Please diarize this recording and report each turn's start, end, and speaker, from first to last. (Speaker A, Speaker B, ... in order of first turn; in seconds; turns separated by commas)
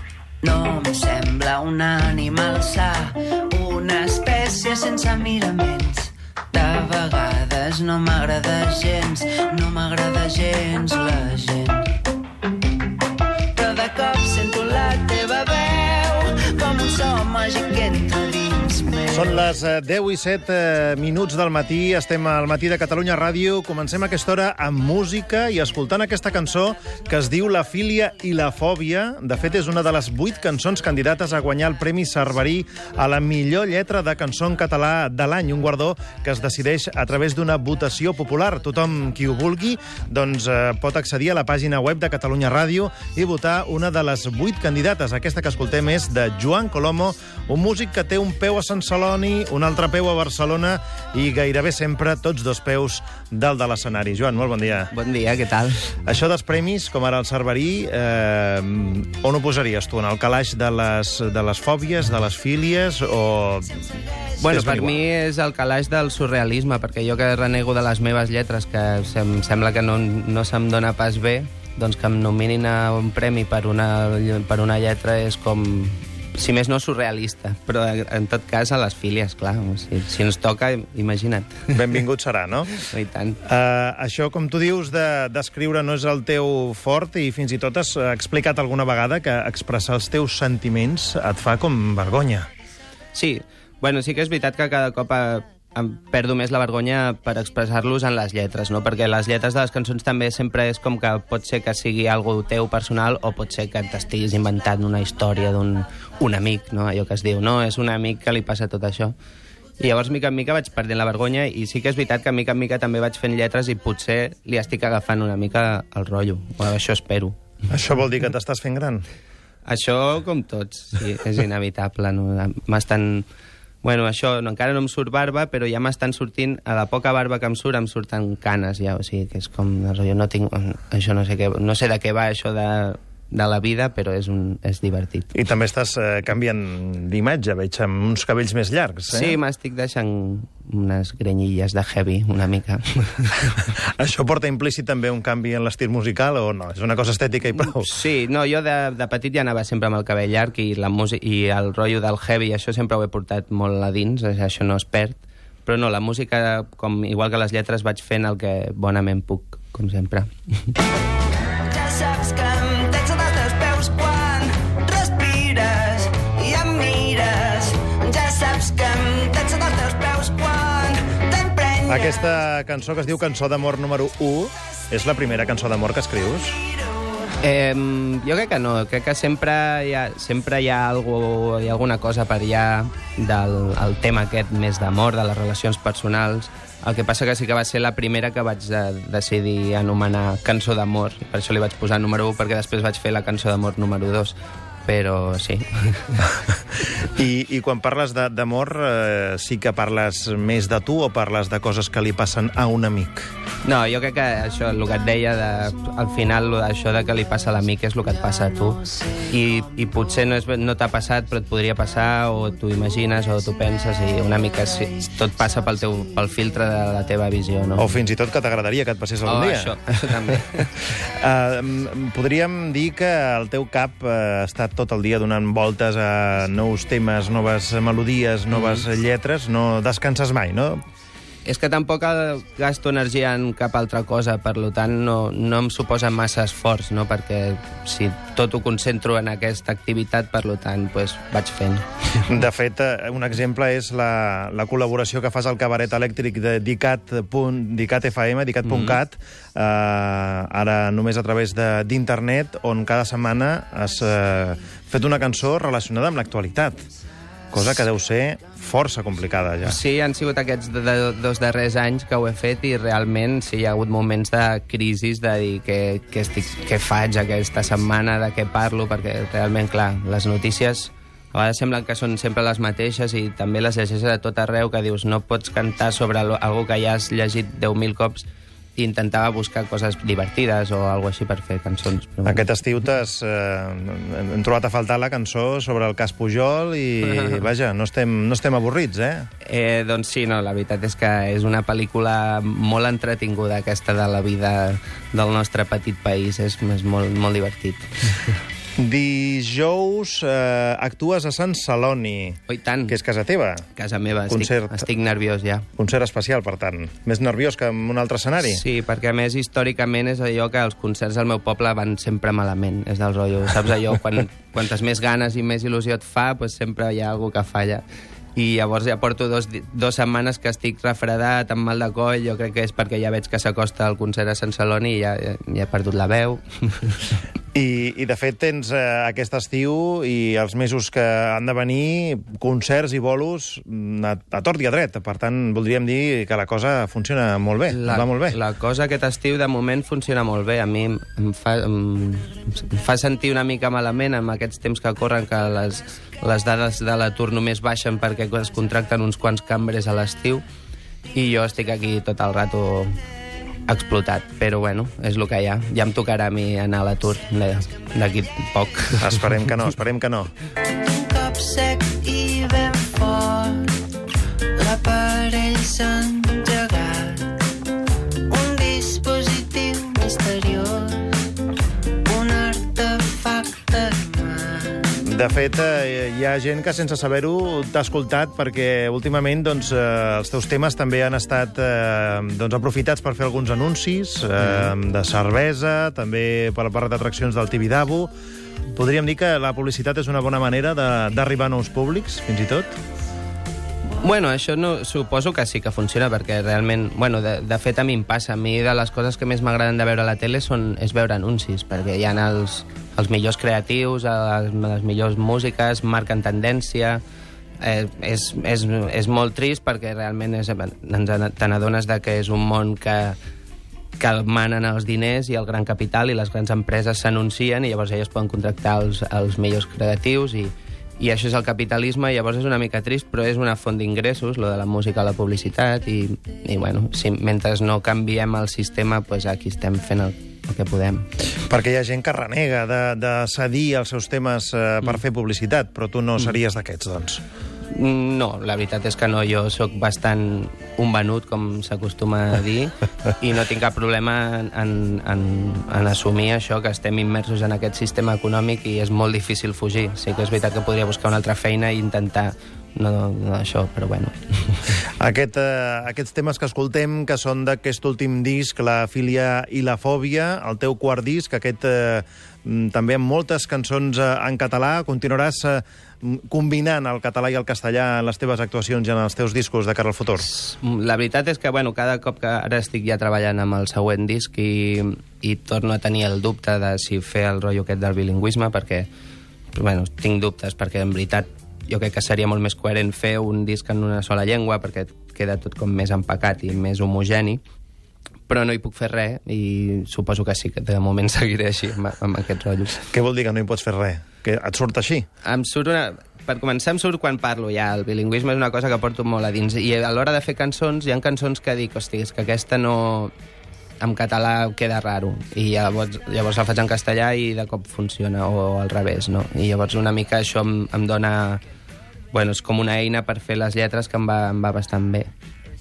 Speaker A: 0.4-11.9, Speaker A: 13.6-19.3, Speaker B: 19.1-54.9, Speaker C: 54.9-55.9, Speaker B: 56.0-63.9, Speaker C: 64.4-81.8, Speaker B: 64.5-65.0, Speaker B: 81.7-82.7, Speaker C: 82.8-83.4, Speaker B: 83.5-92.5, Speaker C: 93.1-109.1, Speaker C: 109.8-117.4, Speaker B: 117.7-119.1, Speaker C: 119.7-123.3, Speaker C: 123.8-135.3, Speaker B: 135.3-139.4, Speaker C: 139.1-143.7, Speaker B: 144.0-147.9, Speaker C: 147.6-160.3, Speaker A: 161.7-172.1, Speaker B: 171.9-176.6, Speaker C: 177.4-196.2, Speaker B: 197.0-203.2, Speaker C: 203.7-217.9, Speaker B: 217.8-220.3, Speaker C: 219.2-220.8, Speaker B: 221.0-230.8, Speaker C: 228.5-228.8, Speaker C: 231.4-242.2, Speaker B: 242.3-256.8, Speaker C: 248.7-249.0, Speaker B: 257.5-259.8, Speaker C: 259.6-282.4, Speaker B: 282.2-289.3, Speaker C: 287.1-287.4, Speaker C: 289.4-297.9, Speaker B: 298.8-303.6, Speaker C: 302.5-303.0, Speaker C: 303.8-305.7, Speaker B: 304.3-304.9, Speaker B: 305.8-308.6, Speaker C: 308.4-317.8, Speaker C: 318.4-327.0, Speaker B: 327.5-338.4, Speaker C: 337.7-350.4, Speaker C: 351.1-352.9, Speaker C: 353.7-359.3, Speaker B: 359.0-360.3, Speaker A: 360.9-363.7, Speaker A: 364.6-367.4, Speaker A: 368.3-371.1, Speaker A: 372.1-374.9, Speaker C: 372.6-374.6, Speaker B: 375.0-388.1, Speaker C: 384.4-384.7, Speaker B: 388.8-392.7, Speaker C: 394.0-407.0, Speaker C: 407.6-413.2, Speaker C: 414.0-431.1, Speaker B: 431.5-437.2, Speaker C: 437.7-454.6, Speaker B: 455.0-470.3, Speaker C: 470.3-478.9, Speaker C: 479.5-487.4, Speaker C: 488.3-492.8, Speaker B: 492.9-495.1, Speaker C: 495.2-503.1, Speaker C: 503.8-511.4, Speaker C: 512.1-515.1